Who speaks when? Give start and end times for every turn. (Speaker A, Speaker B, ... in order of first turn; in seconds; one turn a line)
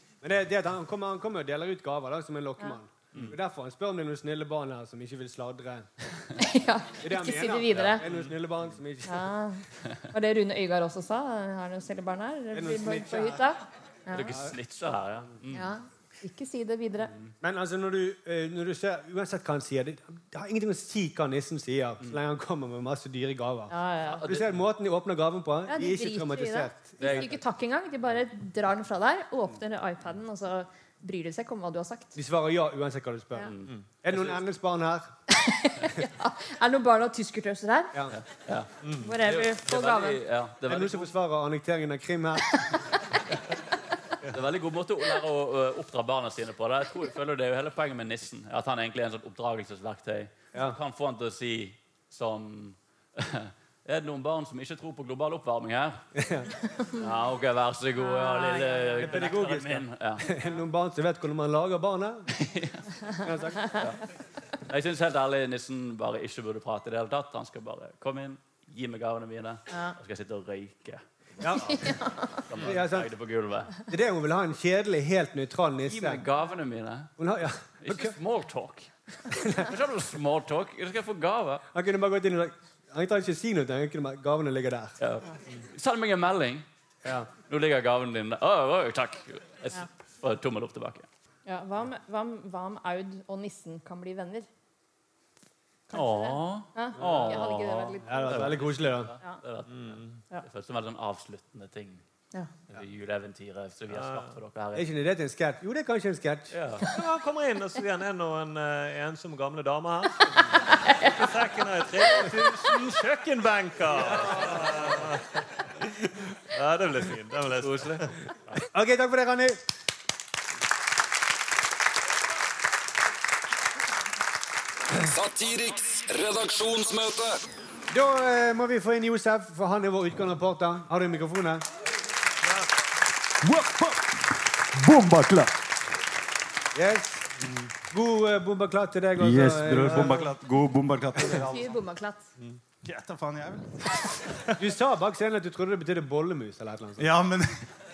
Speaker A: 0.2-5.9
Speaker B: 6.4-8.1
Speaker A: 7.0-9.3
Speaker C: 7.8-8.1
Speaker B: 9.1-14.3
Speaker A: 12.5-13.4
Speaker C: 14.1-15.7
Speaker A: 14.3-14.6
Speaker B: 15.5-17.1
Speaker A: 17.4-23.7
Speaker B: 23.7-24.2
Speaker C: 24.0-24.5
Speaker A: 24.2-27.4
Speaker B: 25.7-32.2
Speaker C: 27.0-27.3
Speaker A: 32.1-35.1
Speaker C: 33.5-33.7
Speaker B: 35.3-37.9
Speaker C: 38.1-41.1
Speaker D: 38.8-39.1
Speaker B: 39.0-40.2
Speaker A: 40.7-42.7
Speaker C: 44.3-56.0
Speaker A: 56.1-56.5
Speaker C: 56.9-60.3
Speaker B: 58.0-59.1
Speaker A: 59.0-62.3
Speaker C: 62.4-62.9
Speaker A: 63.2-63.7
Speaker C: 64.7-73.8
Speaker A: 71.4-71.9
Speaker B: 71.7-72.4
Speaker A: 72.6-73.1
Speaker A: 73.9-76.2
Speaker C: 75.9-77.1
Speaker A: 77.2-78.2
Speaker C: 77.8-81.6
Speaker A: 79.3-79.7
Speaker A: 81.7-85.0
Speaker C: 85.0-86.7
Speaker A: 87.0-87.3
Speaker C: 87.5-91.1
Speaker B: 91.5-94.5
Speaker B: 95.9-98.6
Speaker C: 95.9-102.0
Speaker A: 97.0-97.4
Speaker A: 98.0-99.1
Speaker D: 99.7-100.2
Speaker C: 102.7-104.9
Speaker D: 103.9-104.3
Speaker A: 104.8-106.5
Speaker C: 106.5-106.9
Speaker D: 106.9-118.1
Speaker B: 110.7-111.2
Speaker C: 114.1-114.9
Speaker C: 117.6-118.6
Speaker A: 118.7-119.6
Speaker E: 125.0-127.4
Speaker A: 127.9-131.7
Speaker F: 133.4-134.0
Speaker F: 134.7-135.5
Speaker A: 136.7-140.2
Speaker F: 139.2-141.8
Speaker D: 139.8-140.3
Speaker B: 141.4-142.3
Speaker F: 142.8-143.7
Speaker A: 144.6-147.1
Speaker F: 147.0-147.5